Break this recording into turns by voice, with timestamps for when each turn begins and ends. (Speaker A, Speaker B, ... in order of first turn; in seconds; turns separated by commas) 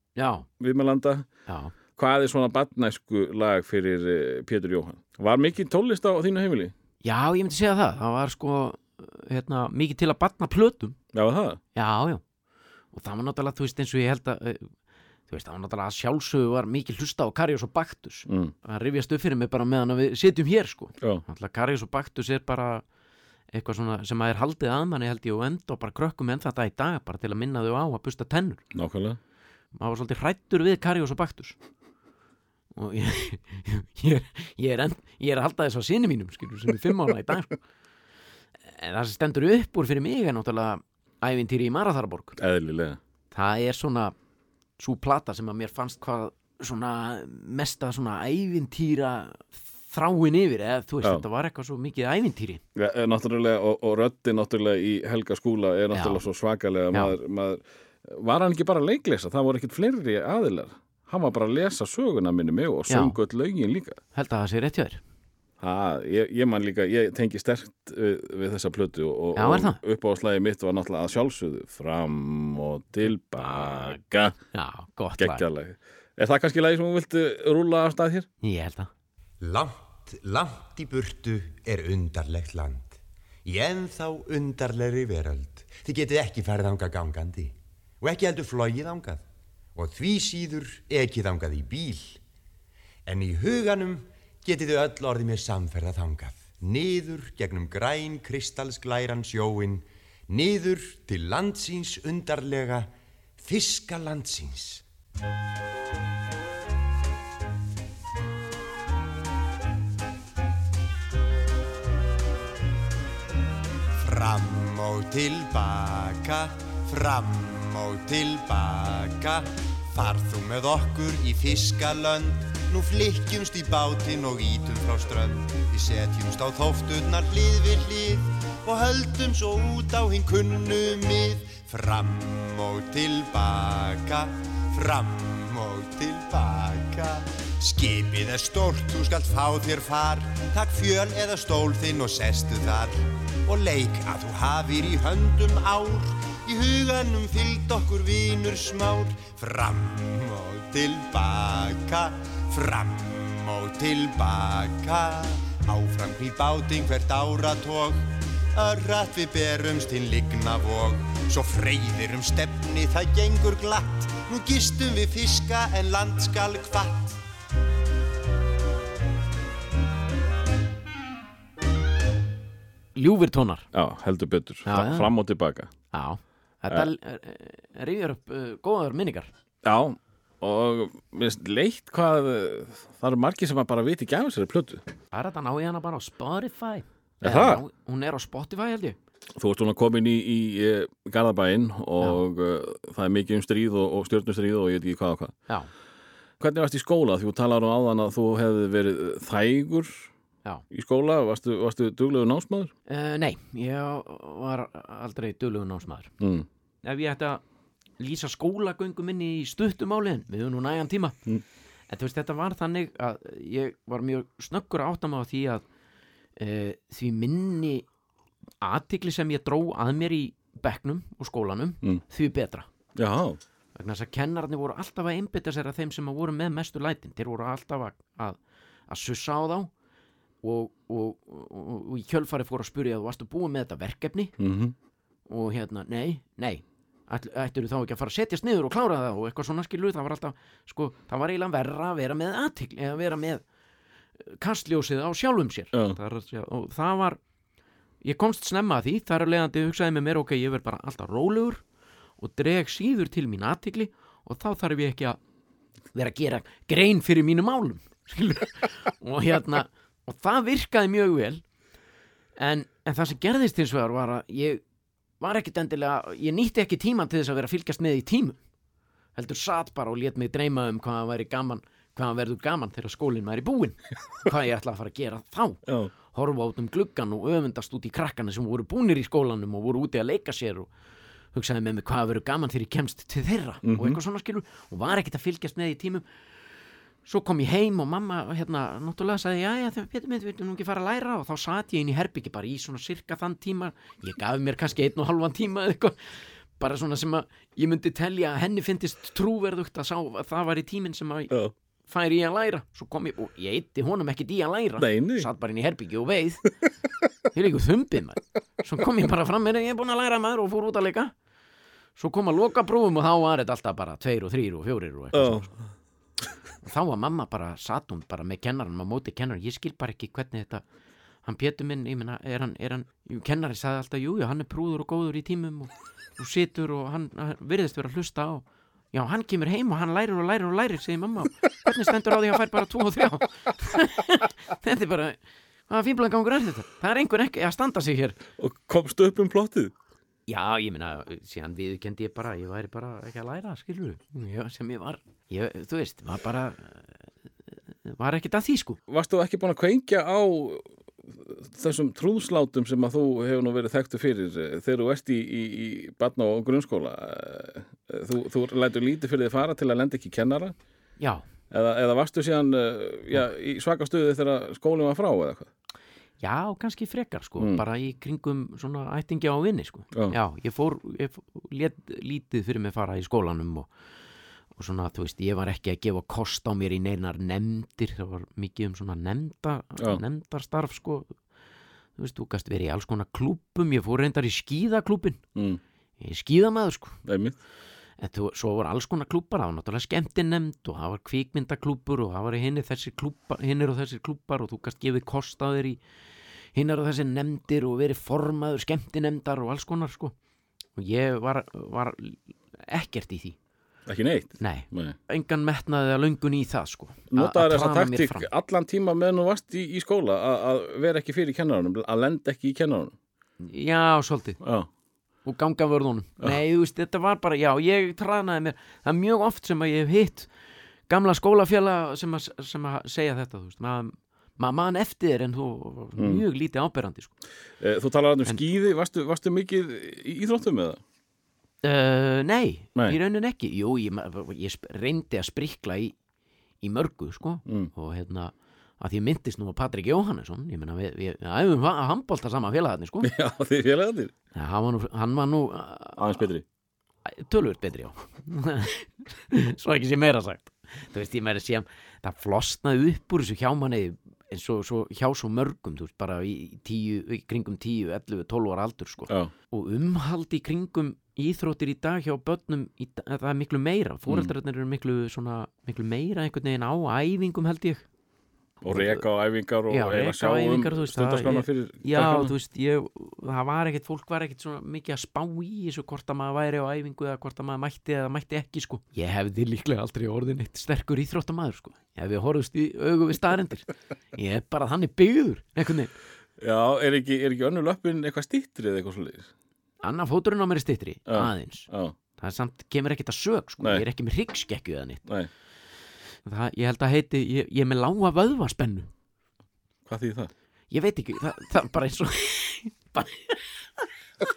Speaker A: 0.1-0.4, Speaker B: 0.6-1.3, Speaker A: 1.5-1.7, Speaker B: 1.9-6.7, Speaker A: 7.0-11.0, Speaker B: 11.1-11.6, Speaker A: 11.8-12.2, Speaker A: 12.9-14.7, Speaker A: 15.3-22.8, Speaker B: 18.3-18.5, Speaker A: 23.5-28.6, Speaker B: 28.7-29.2, Speaker A: 29.8-31.6, Speaker A: 32.8-37.6, Speaker A: 38.6-42.4, Speaker B: 42.4-43.0, Speaker A: 43.3-44.1, Speaker A: 44.8-52.6, Speaker B: 52.8-64.0, Speaker A: 55.9-56.2, Speaker A: 62.9-63.2, Speaker A: 64.1-65.0, Speaker B: 65.6-74.3, Speaker A: 69.3-69.8, Speaker A: 73.4-75.4, Speaker B: 75.2-78.3, Speaker A: 78.4-78.9, Speaker C: 79.4-89.2, Speaker C: 89.7-92.2, Speaker C: 93.0-104.8, Speaker C: 114.0-167.2, Speaker A: 172.9-173.7, Speaker B: 173.7-175.7, Speaker A: 174.7-175.1, Speaker A: 175.9-179.3, Speaker B: 179.6-184.8, Speaker A: 185.1-189.0, Speaker B: 187.2-187.6, Speaker B: 189.4-195.3, Speaker B: 196.4-200.1, Speaker B: 200.7-202.7, Speaker A: 202.9-206.1, Speaker B: 206.2-206.4, Speaker A: 206.8-207.4, Speaker A: 208.0-211.2, Speaker A: 211.9-215.6, Speaker A: 216.4-217.8, Speaker A: 218.6-222.7, Speaker B: 222.9-223.4, Speaker A: 223.8-228.4, Speaker A: 228.9-229.7, Speaker A: 230.4-234.3, Speaker B: 234.4-234.7, Speaker A: 235.3-243.4, Speaker A: 244.2-247.2, Speaker A: 248.0-251.6, Speaker A: 252.2-255.2, Speaker A: 255.9-261.4, Speaker A: 262.4-264.6, Speaker A: 265.2-268.4, Speaker A: 269.1-280.7, Speaker B: 275.7-275.9, Speaker A: 281.3-286.0, Speaker B: 283.6-284.0, Speaker A: 287.1-301.3, Speaker A: 301.9-306.5, Speaker B: 304.8-305.3, Speaker A: 307.3-311.1, Speaker A: 312.0-315.5, Speaker B: 315.1-315.5, Speaker A: 316.6-320.6, Speaker A: 321.2-335.2, Speaker A: 335.7-338.2, Speaker B: 338.4-339.7, Speaker A: 340.3-346.8, Speaker A: 347.8-348.8, Speaker B: 348.9-360.5, Speaker B: 361.5-365.5, Speaker A: 366.2-373.7, Speaker A: 374.6-381.1, Speaker A: 382.0-385.2, Speaker A: 386.0-387.0, Speaker B: 387.1-387.3, Speaker A: 388.0-395.8, Speaker A: 396.5-400.1, Speaker A: 400.8-403.4, Speaker B: 403.9-404.9, Speaker A: 404.4-408.2, Speaker B: 407.1-412.9, Speaker A: 413.4-414.4, Speaker B: 414.4-414.7, Speaker A: 415.2-420.3, Speaker A: 420.9-427.1, Speaker B: 426.0-426.2, Speaker B: 427.6-430.8, Speaker A: 431.6-435.9, Speaker A: 436.6-443.1, Speaker B: 443.0-444.1, Speaker A: 444.3-446.2, Speaker B: 446.0-446.4, Speaker A: 447.0-467.8, Speaker A: 468.6-469.0, Speaker B: 468.6-472.3, Speaker A: 469.7-485.9, Speaker B: 486.4-489.3, Speaker A: 489.8-495.0, Speaker B: 491.1-491.9, Speaker A: 496.2-498.9, Speaker B: 499.9-500.3, Speaker A: 500.7-503.8